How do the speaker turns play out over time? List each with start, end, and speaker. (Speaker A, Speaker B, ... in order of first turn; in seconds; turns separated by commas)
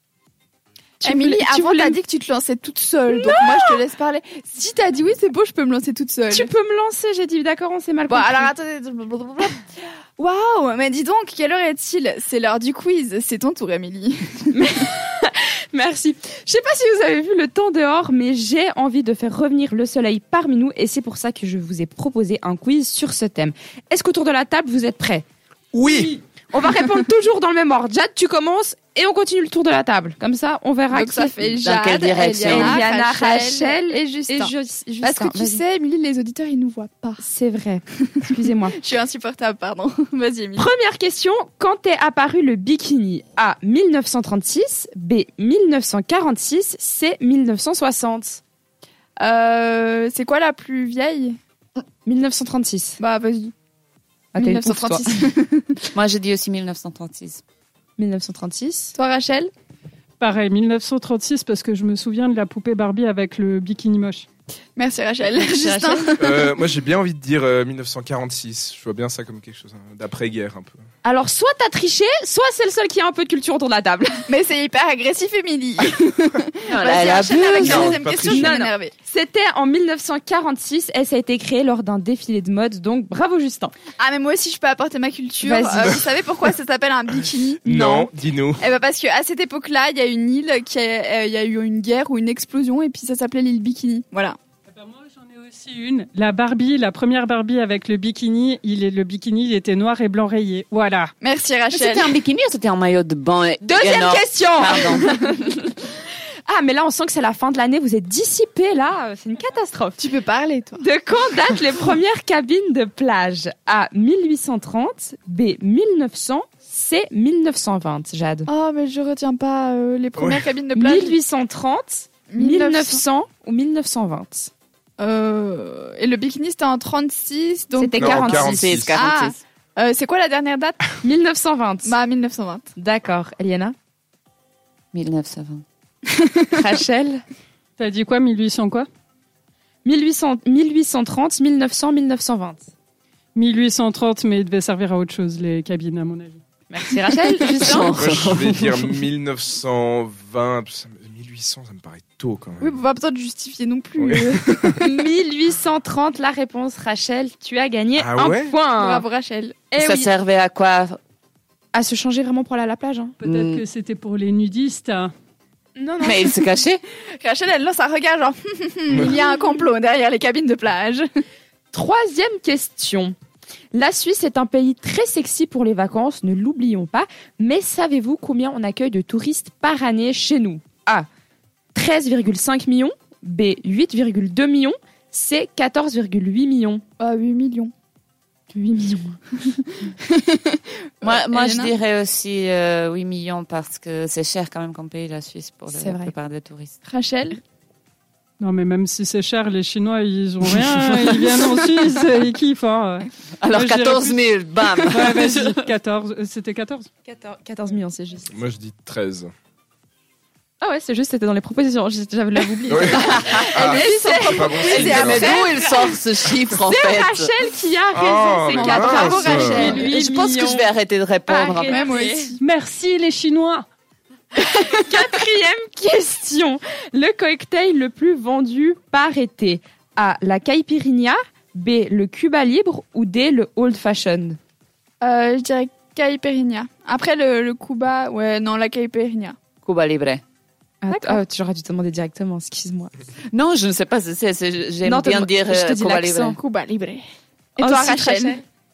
Speaker A: 1.0-2.0, Speaker B: 1.0-6.5, Speaker A: 3.1-3.8, Speaker A: 6.3-8.5, Speaker B: 8.1-9.6, Speaker B: 10.2-14.7, Speaker A: 14.5-25.2, Speaker C: 25.7-26.1, Speaker A: 25.9-31.7, Speaker B: 30.9-37.2, Speaker D: 31.6-32.8, Speaker A: 32.4-35.6, Speaker A: 37.2-38.8, Speaker B: 38.8-40.6, Speaker A: 40.5-48.4, Speaker B: 49.2-51.4, Speaker A: 52.0-53.0, Speaker B: 53.0-53.5, Speaker A: 54.3-55.2, Speaker B: 54.4-55.8, Speaker D: 55.9-57.4, Speaker A: 58.0-58.9, Speaker B: 59.0-59.5, Speaker E: 60.2-64.3, Speaker B: 64.8-66.4, Speaker A: 65.4-66.2, Speaker C: 66.2-70.8, Speaker A: 71.0-74.3, Speaker B: 74.3-78.9, Speaker D: 76.7-78.0, Speaker A: 77.2-83.7, Speaker C: 77.4-78.6, Speaker B: 84.0-94.4, Speaker A: 85.4-86.0, Speaker C: 85.8-86.1, Speaker C: 87.6-88.6, Speaker E: 94.7-101.1, Speaker B: 101.2-102.1, Speaker D: 101.7-105.1, Speaker A: 103.6-105.8, Speaker A: 106.5-110.0, Speaker B: 110.0-110.8, Speaker A: 110.8-118.5, Speaker B: 118.5-121.2, Speaker C: 120.2-120.5, Speaker A: 120.7-124.5, Speaker B: 122.3-123.0, Speaker B: 125.0-130.8, Speaker A: 127.8-128.7, Speaker C: 128.0-129.0, Speaker D: 128.0-129.4, Speaker A: 131.0-131.9, Speaker B: 131.8-132.7, Speaker A: 132.8-133.7, Speaker D: 134.9-135.6, Speaker B: 136.1-136.5, Speaker A: 136.5-137.2, Speaker E: 137.8-138.9, Speaker A: 139.8-142.7, Speaker E: 143.3-146.4, Speaker A: 146.7-148.0, Speaker D: 147.5-148.9, Speaker C: 147.9-152.8, Speaker B: 152.6-154.8, Speaker C: 154.0-154.8, Speaker A: 154.8-159.0, Speaker C: 158.0-158.6, Speaker B: 158.7-159.6, Speaker A: 159.7-160.1, Speaker D: 159.8-161.0, Speaker A: 161.7-163.2, Speaker E: 163.2-165.1, Speaker D: 163.2-163.6, Speaker A: 165.8-166.4, Speaker D: 166.0-166.8, Speaker B: 167.2-171.1, Speaker C: 168.9-169.2, Speaker A: 171.7-173.1, Speaker A: 173.7-181.1, Speaker A: 181.7-186.8, Speaker B: 187.0-187.7, Speaker A: 188.5-189.2, Speaker B: 190.0-191.7, Speaker D: 191.0-196.7, Speaker A: 195.7-196.1, Speaker B: 196.8-197.4, Speaker E: 198.4-206.9, Speaker D: 203.4-205.3, Speaker A: 207.1-208.3, Speaker C: 208.3-209.3, Speaker A: 210.6-215.9, Speaker C: 212.7-215.3, Speaker D: 212.9-213.5, Speaker B: 213.2-215.7, Speaker D: 214.7-217.3, Speaker A: 216.6-220.7, Speaker C: 217.9-219.8, Speaker B: 218.5-219.9, Speaker D: 219.7-221.8, Speaker A: 221.3-222.4, Speaker B: 221.6-222.4, Speaker E: 222.4-223.7, Speaker A: 224.4-234.4, Speaker B: 235.0-239.3, Speaker D: 239.6-240.2, Speaker A: 240.8-242.9, Speaker B: 240.9-241.2, Speaker D: 243.3-246.4, Speaker A: 244.8-246.4, Speaker B: 246.4-247.0, Speaker B: 247.6-248.4, Speaker A: 247.6-248.4